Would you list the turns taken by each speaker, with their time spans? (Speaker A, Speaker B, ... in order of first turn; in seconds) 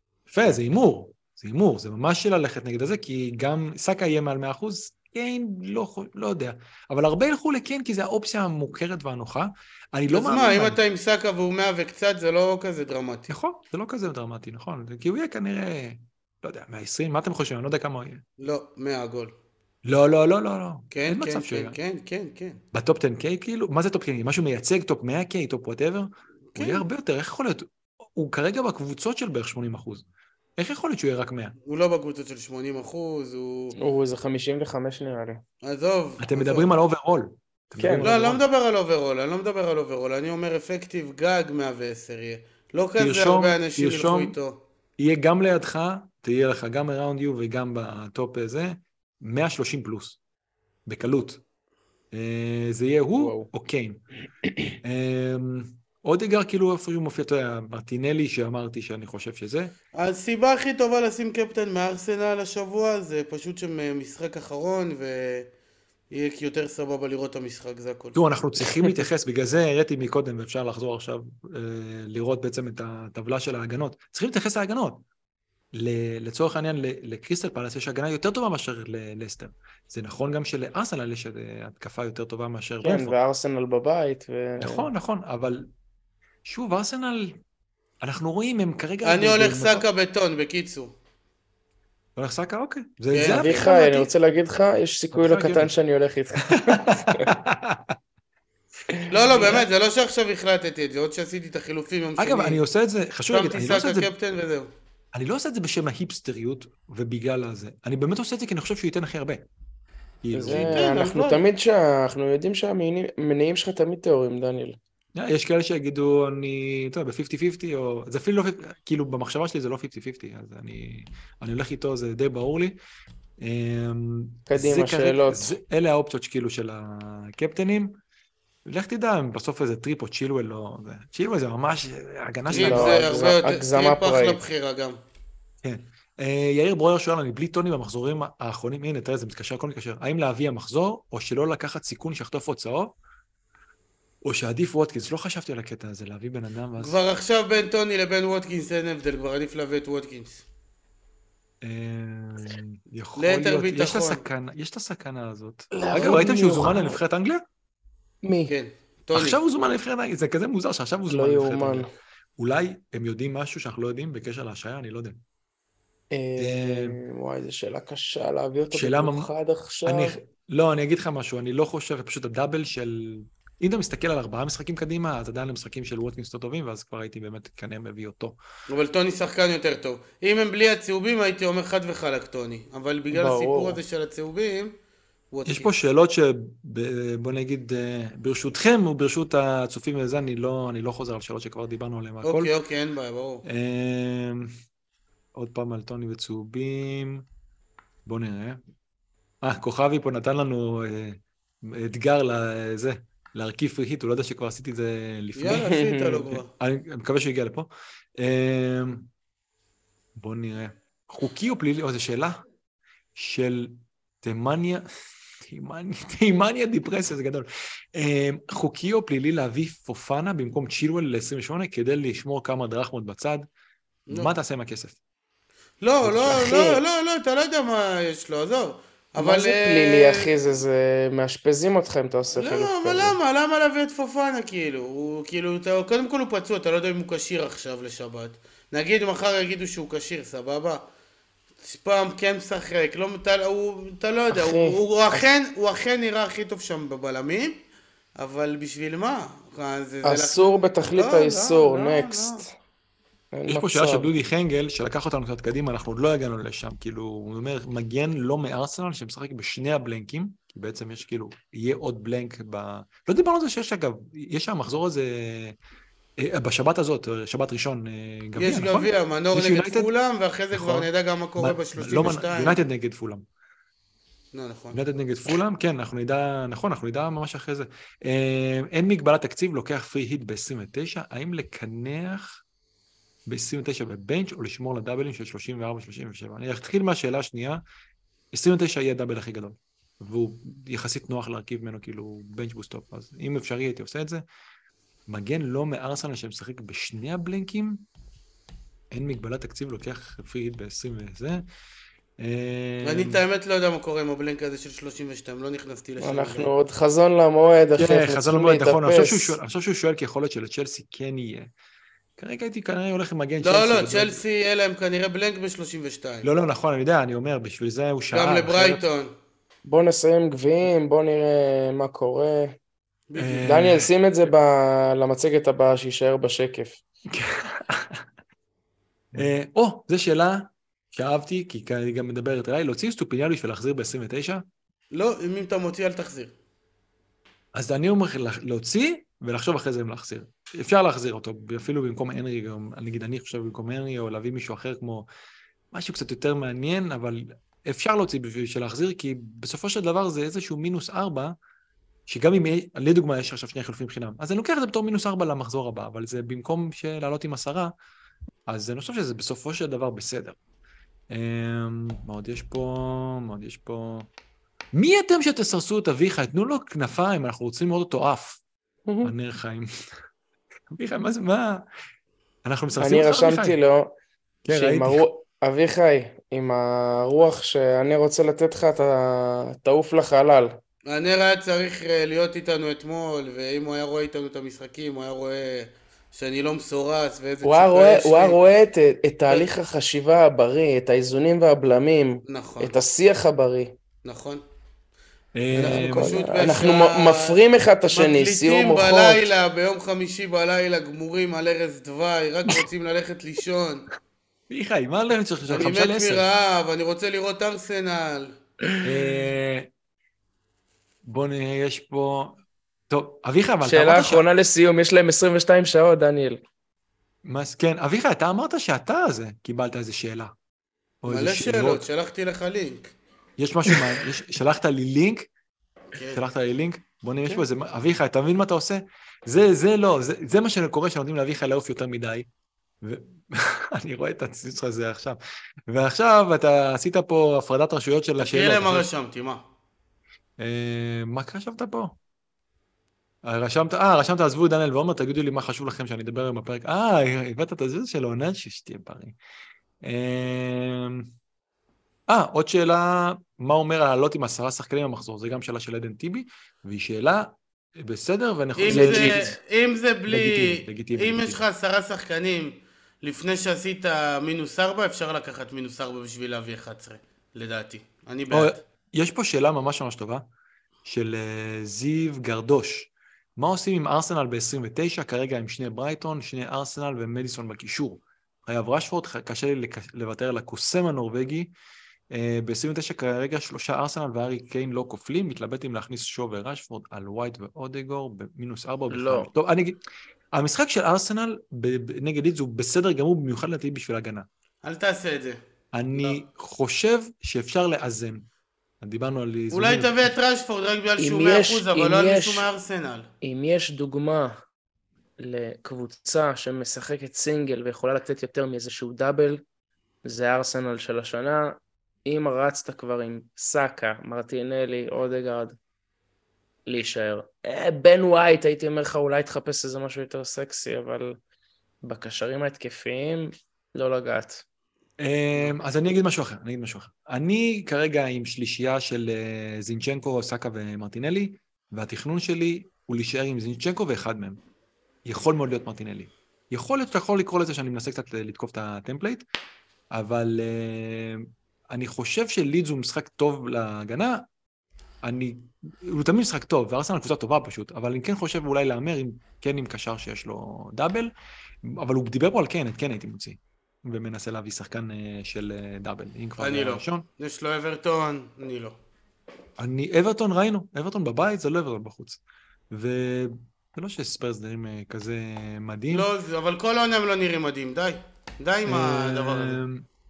Speaker A: 0.3-10.8, 13.3-18.2, 19.9-21.8, 22.7-30.1, 30.6-31.6, 36.2-38.4, 43.0-44.4, 45.0-50.2, 50.9-51.4, 52.1-54.0, 54.8-59.7, 68.2-75.0, 75.7-83.2, 84.6-85.7, 86.5-87.4, 88.0-89.9, 92.2-94.1, 95.1-95.7, 96.5-98.0, 102.2-104.1, 105.1-109.5, 110.2-111.0, 115.2-122.8, 123.4-127.9, 128.7-133.2, 135.6-142.9, 144.2-147.0, 151.6-157.4, 159.1-165.2, 166.4-167.0, 168.7-169.3, 169.8-178.4, 185.5-192.5, 193.4-194.5, 195.3-197.2, 198.1-198.6, 199.4-209.1, 210.2-212.4, 213.2-214.8, 215.4-223.5, 224.1-225.0, 226.0-226.4, 253.5-265.6, 266.2-269.9, 270.5-270.9, 271.4-273.2, 274.7-282.4, 283.3-287.6, 288.3-294.2, 295.1-297.8, 298.9-301.4, 302.2-303.2, 307.8-311.5, 312.2-314.2, 316.2-318.8, 323.2-323.9, 327.1-328.1, 329.1-334.4, 337.6-345.1, 345.7-351.4, 352.1-357.7, 358.5-360.4, 361.1-364.1, 364.8-368.4, 369.0-369.7, 370.7-371.7, 372.4-373.6, 374.4-375.0, 395.4-396.2, 404.5-406.3, 408.8-409.7, 411.1-412.4, 412.9-414.2, 417.2-420.3, 421.0-421.9, 423.4-425.3, 426.1-432.3, 432.8-438.9, 440.4-441.9, 443.2-449.1, 449.8-451.1, 452.1-459.2, 460.1-461.4, 468.3-470.2, 470.9-481.5, 482.1-489.8, 490.4-494.3, 495.7-498.2, 498.8-500.1, 525.0-534.4, 535.1-539.2, 539.9-544.2, 545.0-551.1, 551.6-557.0, 559.6-562.2, 562.7-566.1, 568.7-569.9
Speaker B: 10.1-13.3, 18.4-19.3, 20.9-22.6, 26.6-26.9, 31.7-33.8, 35.6-36.7, 38.0-44.6, 60.0-65.5, 66.1-68.2, 89.0-90.9, 93.1-93.7, 99.1-102.6, 103.3-104.7, 110.5-111.4, 132.5-135.0, 146.8-150.4, 153.2-154.2, 158.5-159.4, 178.7-184.7, 185.3-185.7, 192.2-193.4, 205.4-206.5, 224.1-224.3, 225.8-230.4, 232.4-240.8, 241.6-247.6, 248.2-252.4, 268.4-272.6, 274.3-274.8, 302.8-306.5, 313.4-316.3, 318.1-319.1, 323.1-323.5, 334.9-336.3, 380.9-388.4, 392.3-392.8, 394.0-394.4, 395.6-397.4, 397.9-403.9, 405.5-408.3, 421.1-422.9, 425.9-426.2, 438.2-439.4, 458.6-468.6, 494.6-495.4, 499.5-503.1, 556.4-558.8, 565.9-569.6
Speaker C: 33.8-35.4, 37.8-38.1, 53.2-53.5, 82.8-84.9, 93.3-97.3, 98.9-99.6, 110.3-114.8, 124.5-125.5, 132.5-134.4, 155.7-157.0, 158.2-158.6, 161.1-161.9, 166.1-170.2, 183.1-183.8, 205.5-206.3, 226.3-226.8, 229.2-233.2, 244.3-245.3, 250.0-252.4, 253.3-254.1, 306.0-309.4, 319.7-322.6, 323.4-326.8, 372.8-373.9, 374.5-380.6, 387.4-393.7, 395.5-399.3, 413.6-416.4, 458.7-459.4, 488.9-489.3, 501.0-502.5, 503.2-504.4, 505.2-509.4, 510.1-515.6, 516.7-521.2, 521.8-524.4